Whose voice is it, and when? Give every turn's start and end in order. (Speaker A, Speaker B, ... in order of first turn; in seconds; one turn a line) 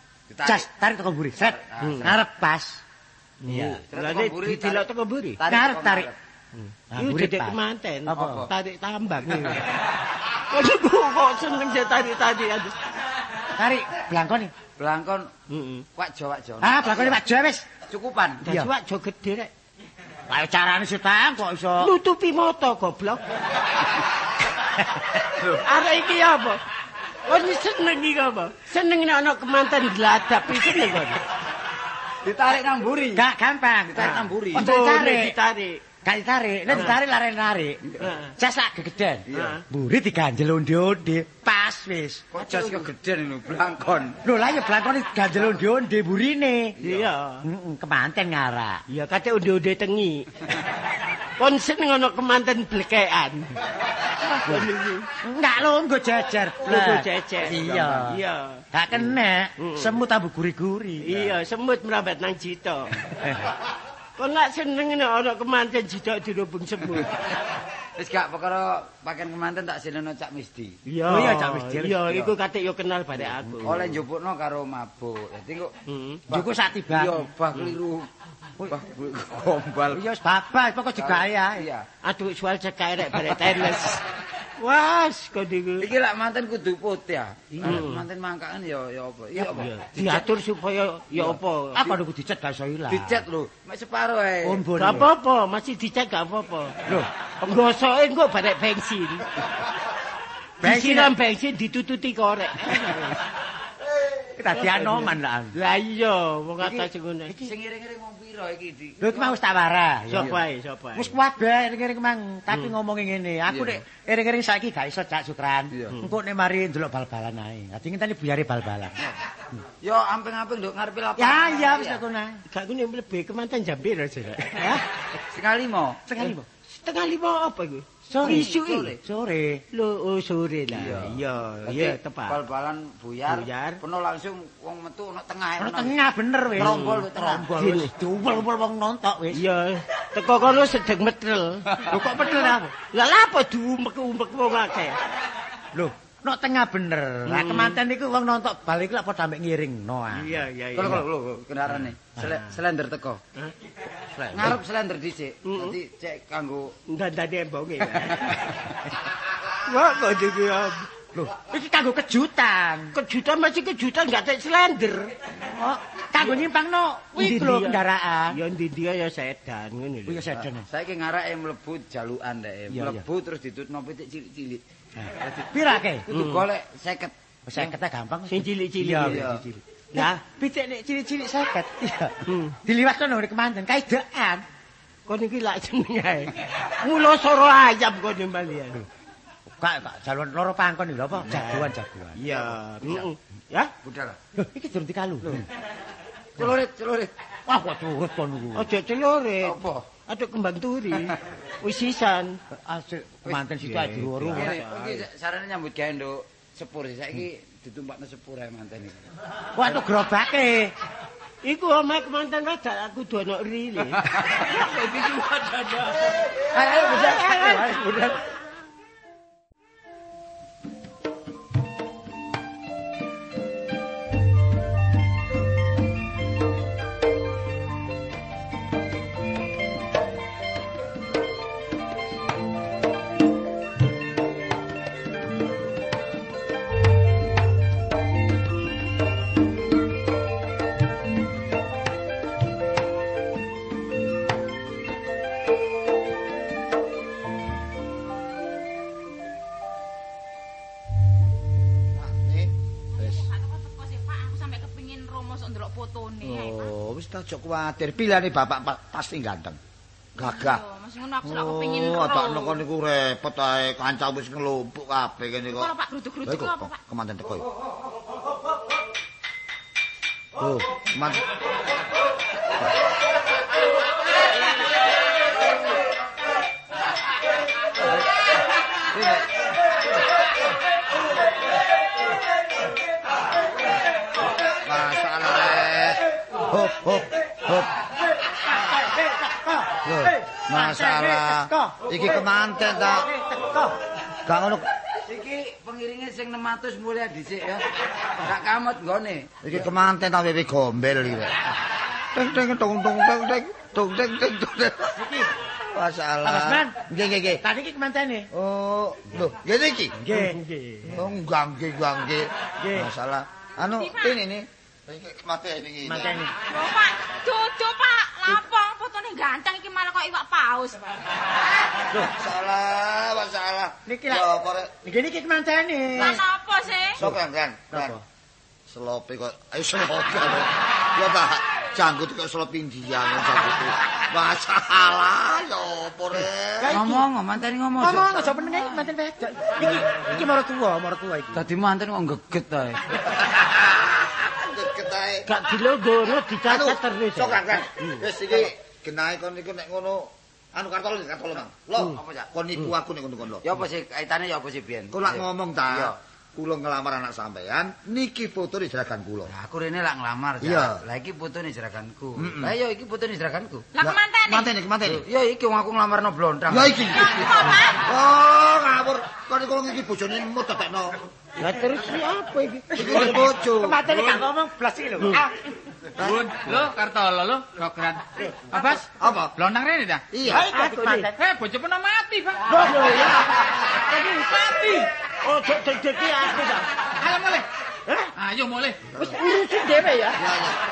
Speaker A: 0.3-0.7
Speaker B: 0.5-2.8
Speaker A: 1.4-2.2
Speaker C: 1.8-2.1
Speaker C: 3.4-5.4
Speaker B: 3.5-3.8
Speaker A: 3.9-6.2
Speaker B: 5.5-6.1
Speaker C: 6.5-12.8
Speaker B: 6.9-8.5
Speaker A: 8.2-8.5
Speaker B: 13.6-14.5
Speaker A: 14.8-15.3
Speaker C: 15.5-15.9
Speaker A: 16.0-17.1
Speaker B: 16.6-17.6
Speaker A: 17.9-18.4
Speaker C: 18.4-19.5
Speaker B: 18.5-18.7
Speaker B: 20.3-21.9
Speaker C: 21.8-23.3
Speaker A: 25.3-25.7
Speaker C: 25.6-26.6
Speaker C: 27.3-31.2
Speaker A: 32.2-33.2
Speaker B: 33.1-35.4
Speaker A: 33.9-34.7
Speaker C: 34.0-35.8
Speaker B: 36.0-37.8
Speaker C: 38.0-38.3
Speaker B: 38.4-42.3
Speaker A: 39.3-39.6
Speaker C: 39.3-39.6
Speaker A: 42.3-44.2
Speaker C: 42.4-42.9
Speaker B: 44.2-46.8
Speaker A: 46.8-47.1
Speaker C: 46.8-47.4
Speaker B: 47.4-48.8
Speaker C: 48.9-50.3
Speaker C: 51.4-53.5
Speaker C: 54.2-55.1
Speaker B: 55.2-58.2
Speaker C: 56.6-58.6
Speaker B: 58.7-61.2
Speaker C: 59.6-60.0
Speaker C: 61.0-63.0
Speaker C: 64.2-67.1
Speaker A: 68.0-70.8
Speaker C: 70.9-74.0
Speaker B: 71.1-72.2
Speaker A: 73.6-75.7
Speaker C: 75.9-76.2
Speaker B: 76.3-77.2
Speaker A: 76.3-78.1
Speaker A: 78.7-80.0
Speaker B: 79.9-81.7
Speaker A: 81.0-81.9
Speaker C: 82.0-85.9
Speaker A: 85.8-90.2
Speaker C: 87.6-88.0
Speaker C: 89.4-92.0
Speaker B: 91.8-93.2
Speaker A: 92.9-94.7
Speaker B: 94.4-95.1
Speaker C: 94.8-96.8
Speaker C: 97.4-99.3
Speaker C: 100.6-103.2
Speaker B: 100.6-101.1
Speaker B: 104.4-105.6
Speaker C: 104.5-107.3
Speaker A: 106.6-106.9
Speaker A: 107.4-109.4
Speaker B: 109.0-110.4
Speaker C: 110.1-111.2
Speaker B: 111.0-119.0
Speaker A: 113.5-113.8
Speaker A: 115.7-116.0
Speaker A: 119.8-122.0
Speaker B: 121.2-122.4
Speaker C: 122.5-124.8
Speaker A: 125.3-126.0
Speaker B: 126.1-126.5
Speaker C: 126.2-129.0
Speaker B: 128.1-129.6
Speaker A: 128.2-129.0
Speaker C: 129.7-132.4
Speaker A: 130.7-135.9
Speaker C: 133.3-133.8
Speaker B: 135.6-139.4
Speaker A: 136.6-137.5
Speaker C: 136.6-137.9
Speaker C: 139.3-145.0
Speaker B: 141.9-142.7
Speaker B: 145.7-150.4
Speaker C: 147.3-147.8
Speaker C: 150.1-151.1
Speaker A: 150.8-153.2
Speaker B: 154.1-154.6
Speaker A: 154.3-156.8
Speaker C: 155.4-155.8
Speaker C: 156.9-158.5
Speaker C: 159.7-160.9
Speaker B: 161.1-162.9
Speaker C: 162.9-165.2
Speaker B: 165.4-168.4
Speaker C: 167.2-170.4
Speaker B: 170.1-170.7
Speaker A: 170.5-174.6
Speaker B: 172.7-173.1
Speaker B: 175.0-176.1
Speaker A: 175.2-177.7
Speaker C: 176.1-176.4
Speaker B: 177.5-184.4
Speaker C: 178.3-179.4
Speaker A: 178.9-179.4
Speaker C: 182.3-182.6
Speaker C: 185.1-188.8
Speaker B: 189.6-192.2
Speaker C: 191.3-193.7
Speaker A: 192.3-193.1
Speaker A: 193.8-194.2
Speaker B: 194.4-195.4
Speaker A: 196.4-197.1
Speaker B: 197.5-198.7
Speaker C: 198.6-202.4
Speaker A: 199.4-199.9
Speaker B: 202.5-204.6
Speaker C: 203.6-205.1
Speaker A: 204.3-209.0
Speaker B: 209.6-210.7
Speaker C: 211.4-218.1
Speaker A: 214.0-214.4
Speaker B: 216.5-218.1
Speaker A: 217.5-217.9
Speaker D: 251.9-253.2
Speaker E: 253.0-256.7
Speaker D: 256.2-259.6
Speaker E: 260.2-262.6
Speaker D: 260.2-260.6
Speaker D: 261.2-265.7
Speaker E: 265.5-266.8
Speaker D: 266.3-267.5
Speaker D: 270.4-271.2
Speaker D: 278.9-279.3
Speaker D: 284.6-287.7
Speaker B: 288.6-292.2
Speaker D: 289.9-293.1
Speaker B: 292.9-293.8
Speaker D: 294.3-294.7
Speaker A: 295.1-299.4
Speaker D: 299.4-301.4
Speaker D: 302.1-305.0
Speaker B: 305.0-305.3
Speaker D: 305.6-307.4
Speaker B: 306.2-306.7
Speaker B: 307.4-308.3
Speaker D: 308.3-310.0
Speaker B: 310.0-310.9
Speaker C: 310.1-310.9
Speaker D: 310.9-316.2
Speaker B: 312.6-312.9
Speaker E: 313.7-314.2
Speaker B: 315.9-316.3
Speaker E: 316.4-321.0
Speaker D: 322.1-324.7
Speaker B: 323.9-326.2
Speaker E: 325.9-327.0
Speaker D: 327.0-328.0
Speaker B: 327.7-328.0
Speaker D: 328.7-336.8
Speaker B: 336.6-337.1
Speaker A: 336.7-338.4
Speaker B: 337.8-341.4
Speaker A: 341.3-342.8
Speaker D: 343.0-345.3
Speaker C: 345.2-348.1
Speaker D: 346.5-353.6
Speaker A: 351.8-352.3
Speaker A: 353.4-356.0
Speaker D: 354.9-359.3
Speaker A: 359.3-363.7
Speaker D: 360.4-360.8
Speaker D: 362.2-362.5
Speaker E: 363.8-364.5
Speaker D: 363.8-365.1
Speaker A: 364.9-366.8
Speaker D: 366.5-371.0
Speaker E: 367.0-367.8
Speaker C: 371.4-373.3
Speaker B: 372.7-375.3
Speaker D: 372.8-373.8
Speaker F: 373.9-374.2
Speaker D: 376.0-376.6
Speaker F: 376.0-380.1
Speaker D: 379.0-379.4
Speaker D: 380.1-380.5
Speaker C: 380.3-381.1
Speaker B: 380.3-381.2
Speaker F: 381.1-383.1
Speaker C: 382.5-383.4
Speaker B: 382.7-383.0
Speaker F: 383.7-384.9
Speaker C: 385.2-386.7
Speaker F: 387.0-387.5
Speaker F: 388.2-388.9
Speaker D: 388.9-389.2
Speaker C: 389.0-390.2
Speaker D: 390.2-390.6